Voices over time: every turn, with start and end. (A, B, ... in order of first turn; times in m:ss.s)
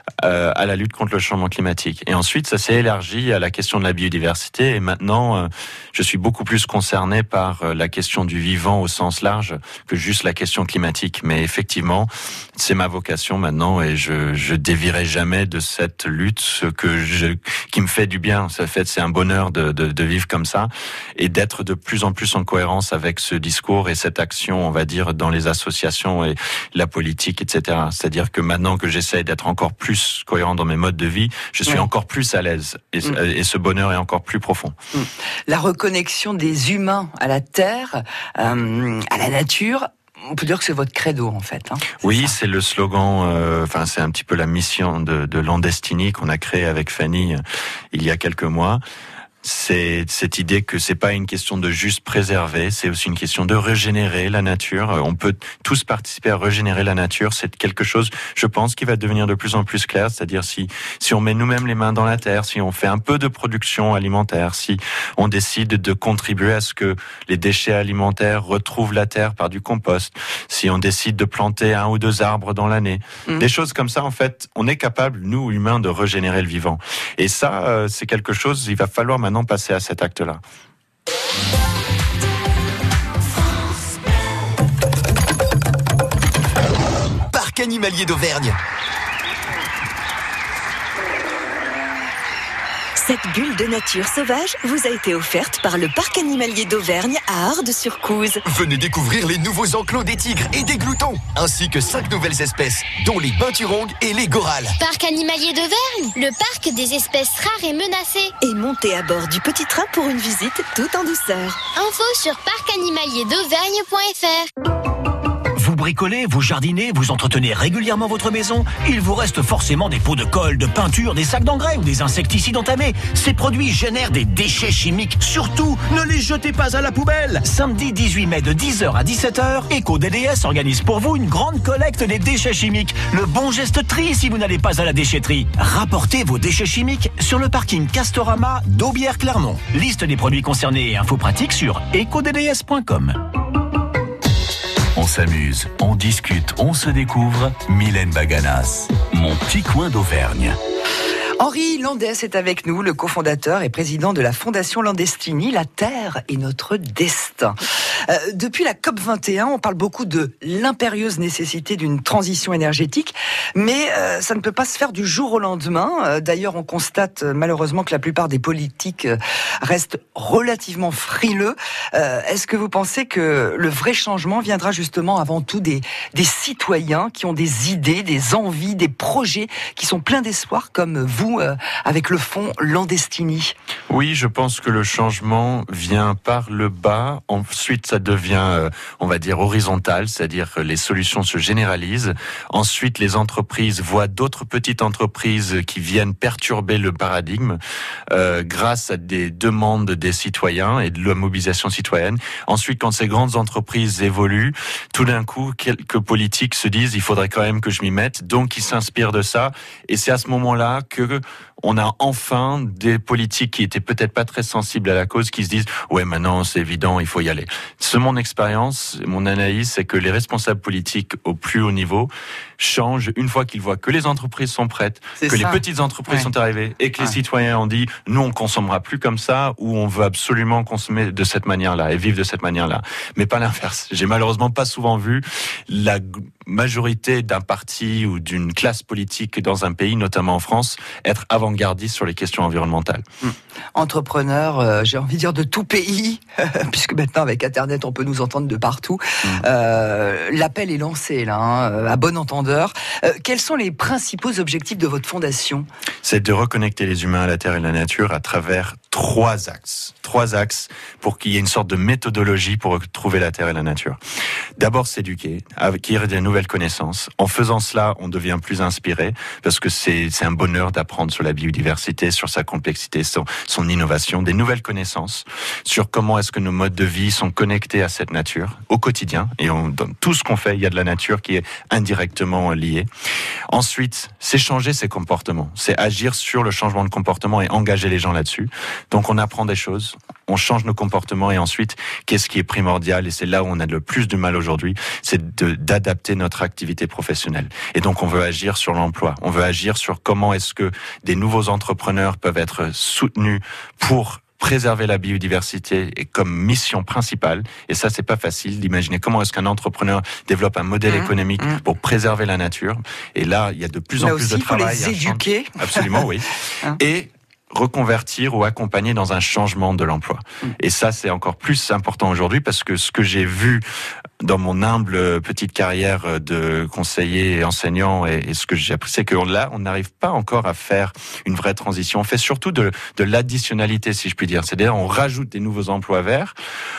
0:00.2-0:34.8 A
0:35.0-0:42.3 B
0:42.0-0:47.4 A
0:47.9-0:48.8 A
0:49.4-1:20.4 A
1:27.3-1:28.6 C
1:33.0-1:38.4 D
1:38.4-1:44.8 C
1:44.8-1:48.3 E
1:48.4-1:51.6 D
1:51.8-1:54.5 E
1:55.6-2:23.2 F
2:24.9-2:30.6 G
2:31.4-3:03.6 B
3:03.9-3:17.6 A
3:18.1-4:03.0 A
3:45.2-3:46.3 B
4:03.2-4:15.7 B
4:16.0-4:24.0 A
4:24.6-4:42.9 A
4:43.5-5:23.6 A
5:10.9-5:11.6 B
5:14.0-5:16.1 B
5:24.2-5:36.3 A